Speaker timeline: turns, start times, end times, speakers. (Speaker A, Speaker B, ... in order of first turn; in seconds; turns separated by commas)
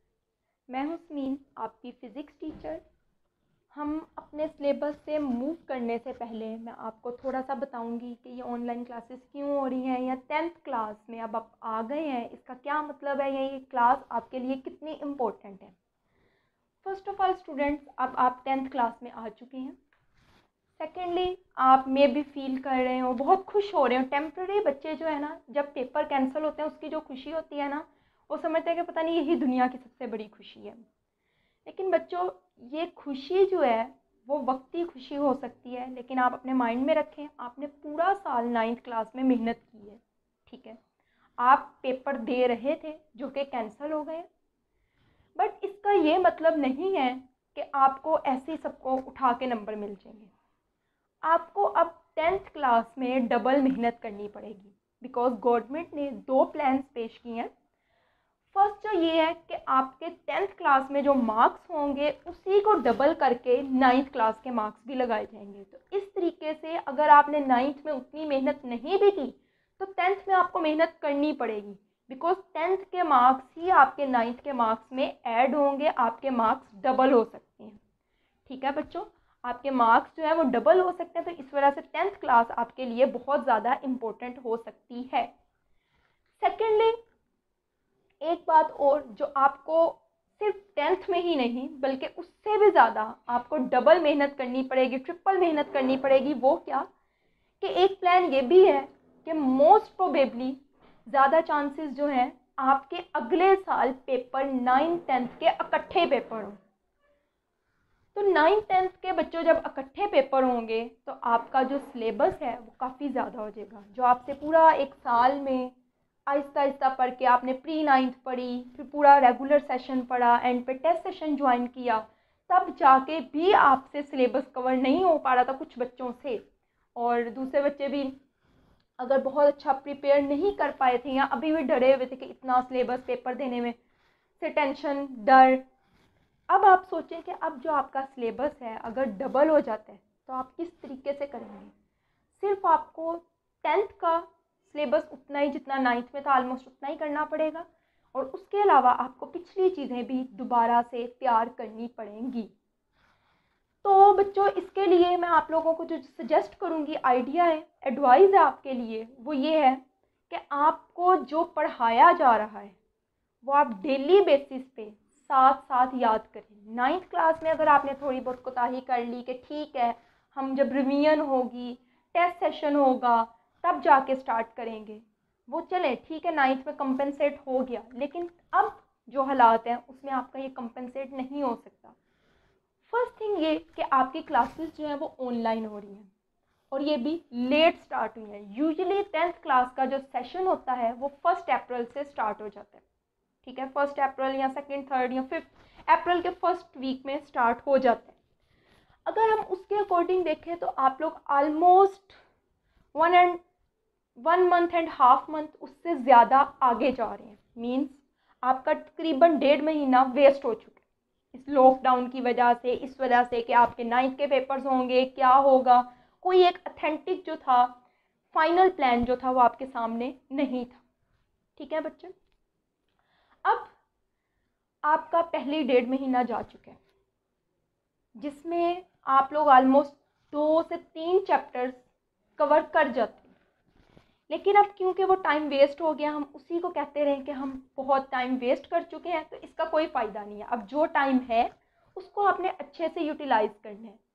Speaker A: 0.7-2.8, Speaker A: 3.7-15.7, Speaker A: 16.8-19.8, Speaker A: 20.8-30.8, Speaker A: 31.7-40.8, Speaker A: 41.4-44.3, Speaker A: 45.4-50.3, Speaker A: 51.3-57.5, Speaker A: 58.5-77.8, Speaker A: 78.5-85.3, Speaker A: 86.4-87.0, Speaker A: 88.2-96.9, Speaker A: 97.6-106.6, Speaker A: 108.1-115.7, Speaker A: 116.3-126.4, Speaker A: 127.0-128.2, Speaker A: 129.0-133.8, Speaker A: 134.4-135.6, Speaker A: 136.5-141.7, Speaker A: 142.3-152.5, Speaker A: 153.8-162.8, Speaker A: 163.4-182.0, Speaker A: 182.9-186.1, Speaker A: 186.7-192.8, Speaker A: 193.4-198.2, Speaker A: 199.1-202.2, Speaker A: 202.9-203.4, Speaker A: 204.2-210.8, Speaker A: 211.3-217.8, Speaker A: 218.3-220.8, Speaker A: 221.6-222.1, Speaker A: 223.4-223.7, Speaker A: 224.9-226.8, Speaker A: 228.2-231.8, Speaker A: 232.4-233.3, Speaker A: 234.3-244.0